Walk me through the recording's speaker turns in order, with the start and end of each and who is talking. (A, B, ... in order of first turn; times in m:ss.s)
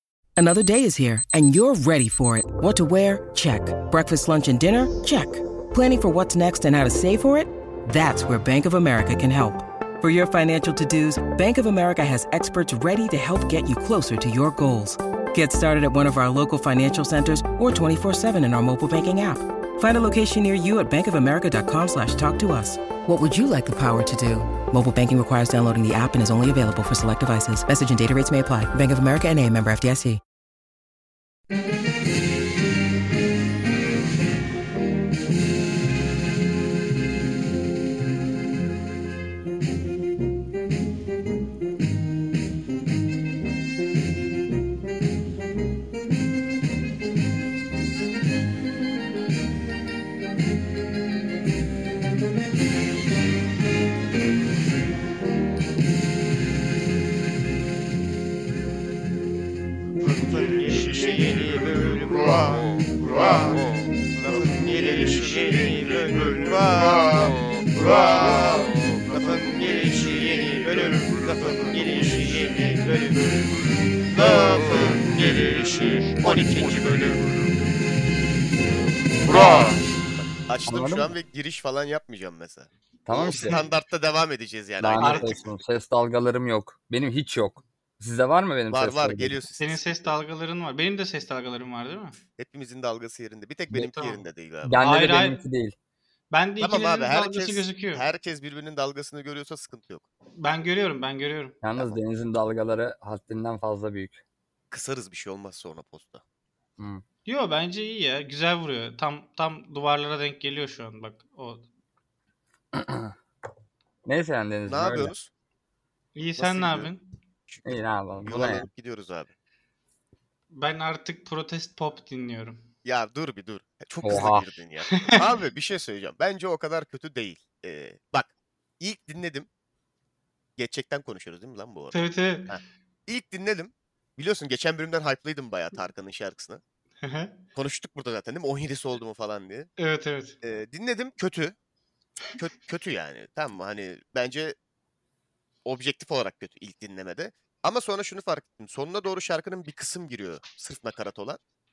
0:00.4-0:30.2 A
1:00.0-1:13.1 B
1:14.1-1:17.2 B
1:19.2-1:19.8 B
1:19.3-1:19.6 C
1:20.4-1:25.5 B
1:20.6-1:21.1 D
1:23.0-1:23.6 D
1:23.3-1:23.6 C
1:24.8-1:29.4 D
1:25.0-1:25.4 C
1:28.7-1:30.1 B
1:29.6-1:32.2 C
1:32.4-1:34.8 B
1:33.8-1:34.2 C
1:34.6-1:35.7 D
1:34.8-1:35.4 C
1:36.3-1:38.1 C
1:36.6-1:40.0 B
1:40.4-1:41.6 C
1:41.6-1:44.2 D
1:44.7-1:46.2 B
1:46.8-1:47.0 D
1:47.2-1:51.7 C
1:52.7-1:53.1 D
1:54.0-1:55.1 D
1:54.7-1:55.3 B
1:56.1-1:57.0 C
1:56.4-1:56.9 B
1:57.5-1:59.3 B
1:57.6-1:58.7 D
2:00.5-2:02.6 C
2:02.8-2:09.5 B
2:04.0-2:04.5 D
2:04.9-2:05.2 C
2:10.6-2:12.0 B
2:11.9-2:12.6 C
2:12.5-2:16.6 B
2:17.0-2:17.4 C
2:17.5-2:19.7 B
2:19.8-2:20.4 C
2:20.4-2:21.5 B
2:22.4-2:24.5 B
2:25.6-2:31.4 B